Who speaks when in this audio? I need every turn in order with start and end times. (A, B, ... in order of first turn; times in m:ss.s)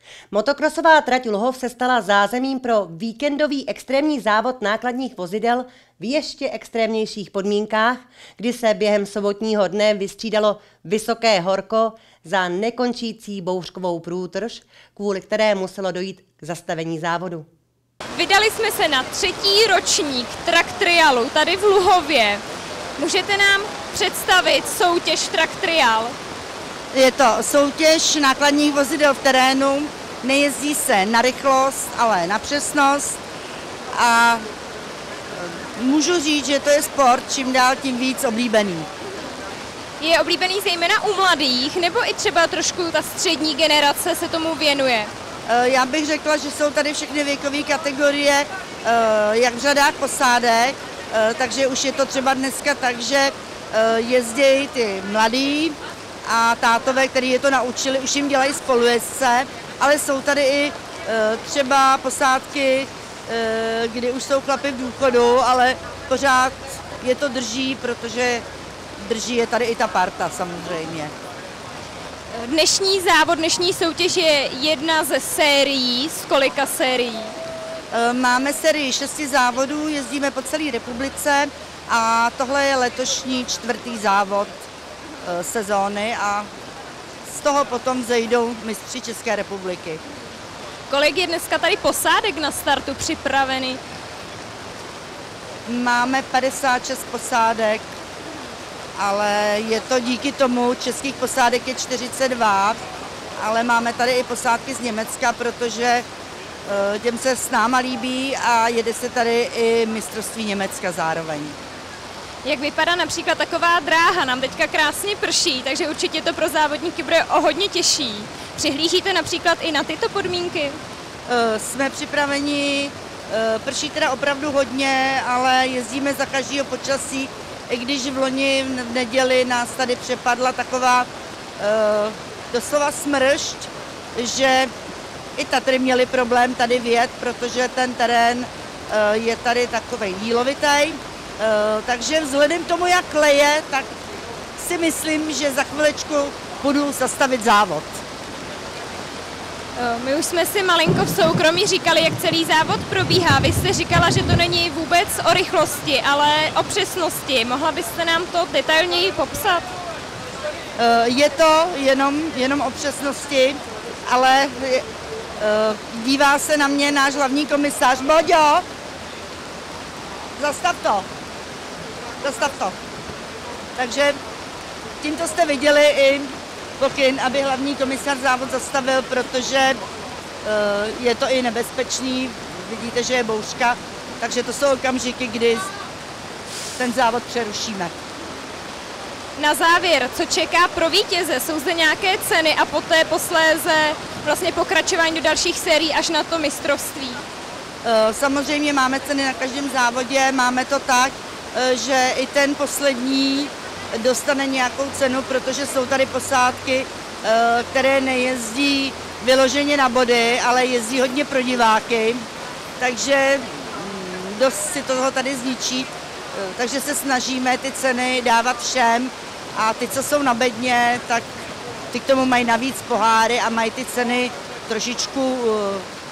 0:00.3-0:17.5 A
0:18.1-0:22.4 B
0:23.0-0:26.2 B
0:26.9-0:33.2 C
0:33.9-0:34.4 C
0:35.4-0:38.9 C
0:40.0-0:45.1 B
0:45.5-1:08.4 C
1:09.0-1:11.1 C
1:12.3-1:17.4 B
1:17.9-1:24.6 C
1:25.2-1:26.5 C
1:27.3-1:30.0 C
1:30.9-1:33.8 B
1:35.7-1:37.8 C
1:39.0-1:42.8 C
1:43.4-1:46.1 C
1:46.7-1:51.6 C
1:52.4-2:00.8 B
2:01.3-2:11.1 C
2:11.6-2:14.7 C
2:15.4-2:23.9 C
2:24.6-2:28.0 C
2:29.8-2:39.7 B
2:40.8-2:44.9 C
2:45.4-2:48.6 C
2:50.4-2:51.1 C
2:52.2-2:52.8 C
2:53.8-2:54.2 C
2:55.0-2:59.8 C
3:00.4-3:05.7 C
3:06.8-3:07.9 C
3:09.4-3:17.2 B
3:17.8-3:32.2 C
3:32.8-3:41.3 C
3:41.9-3:45.9 C